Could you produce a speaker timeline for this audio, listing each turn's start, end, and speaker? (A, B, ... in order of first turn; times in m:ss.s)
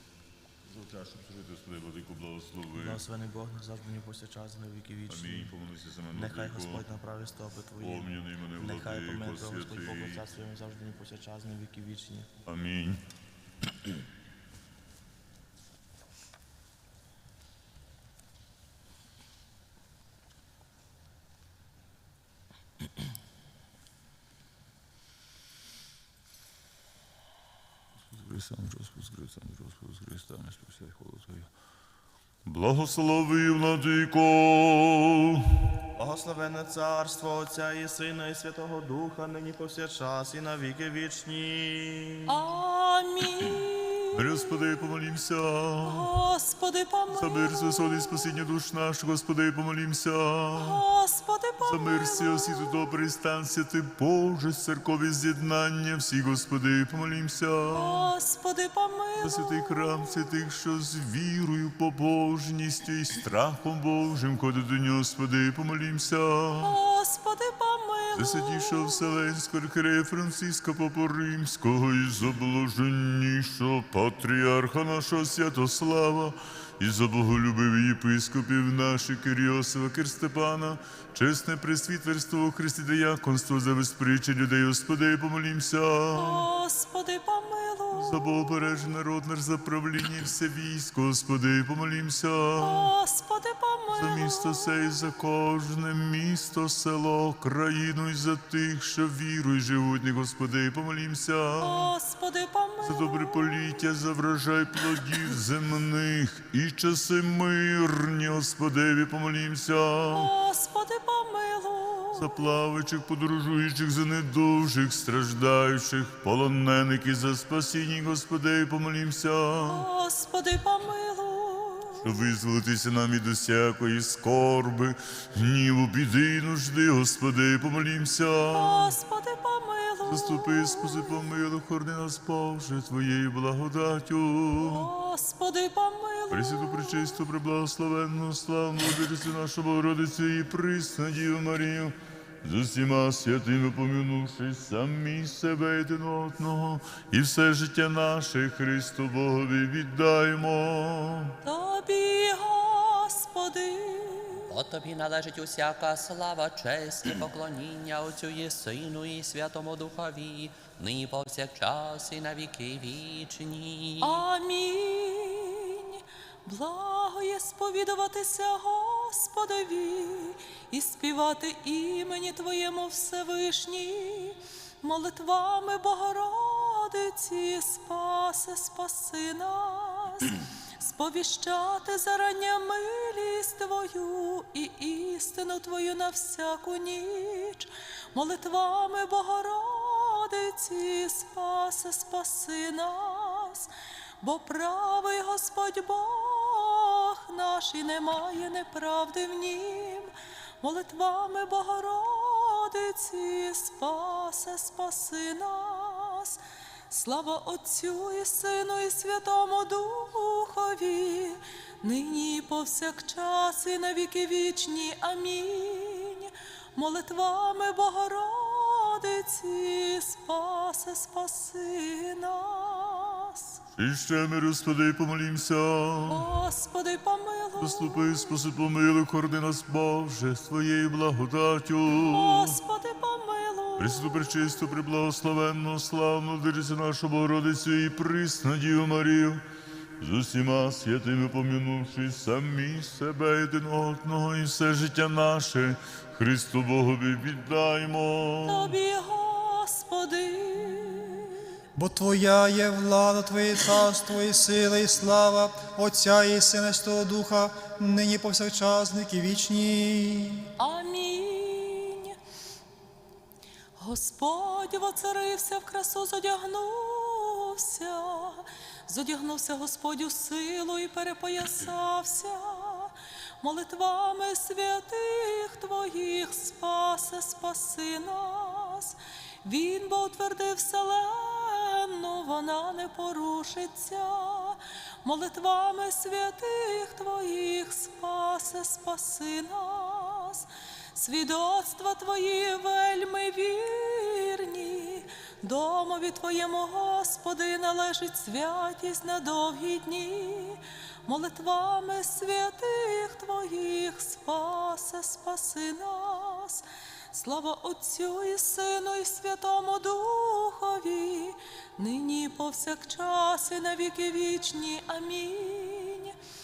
0:00.7-0:03.0 A
0:02.7-0:12.3 B
0:05.1-0:06.8 A
0:07.8-0:10.2 A
0:12.4-0:13.0 A
0:28.1-0:31.5 A
0:32.4-0:35.6 A
0:35.9-0:42.4 B
0:42.3-0:44.6 C
0:44.1-0:46.1 A
0:45.8-0:48.4 C
0:47.1-0:50.8 A
0:50.5-0:52.9 C
0:51.6-0:58.1 A
0:57.7-1:00.4 C
0:59.2-1:06.7 A
1:06.6-1:09.2 C
1:08.1-1:26.4 A
1:26.1-1:28.3 C
1:27.9-1:32.9 A
1:32.6-1:34.9 C
1:33.9-1:41.9 A
1:41.6-1:43.7 C
1:42.8-1:50.3 A
1:50.1-1:52.4 C
1:52.1-1:59.8 A
1:59.6-2:02.1 C
2:02.0-2:08.9 A
2:08.5-2:11.2 C
2:10.0-2:14.9 A
2:14.6-2:17.2 C
2:16.3-2:31.4 A
2:31.4-2:34.6 C
2:34.4-2:44.2 D
2:44.0-3:43.6 C
3:43.8-3:46.2 A
3:46.0-3:48.4 C
3:47.6-3:52.6 A
3:52.1-3:54.5 C
3:53.8-3:59.4 A
4:00.0-4:08.7 A
4:08.4-4:11.6 C
4:11.8-4:20.5 E
4:20.6-4:22.2 C
4:23.8-5:16.2 C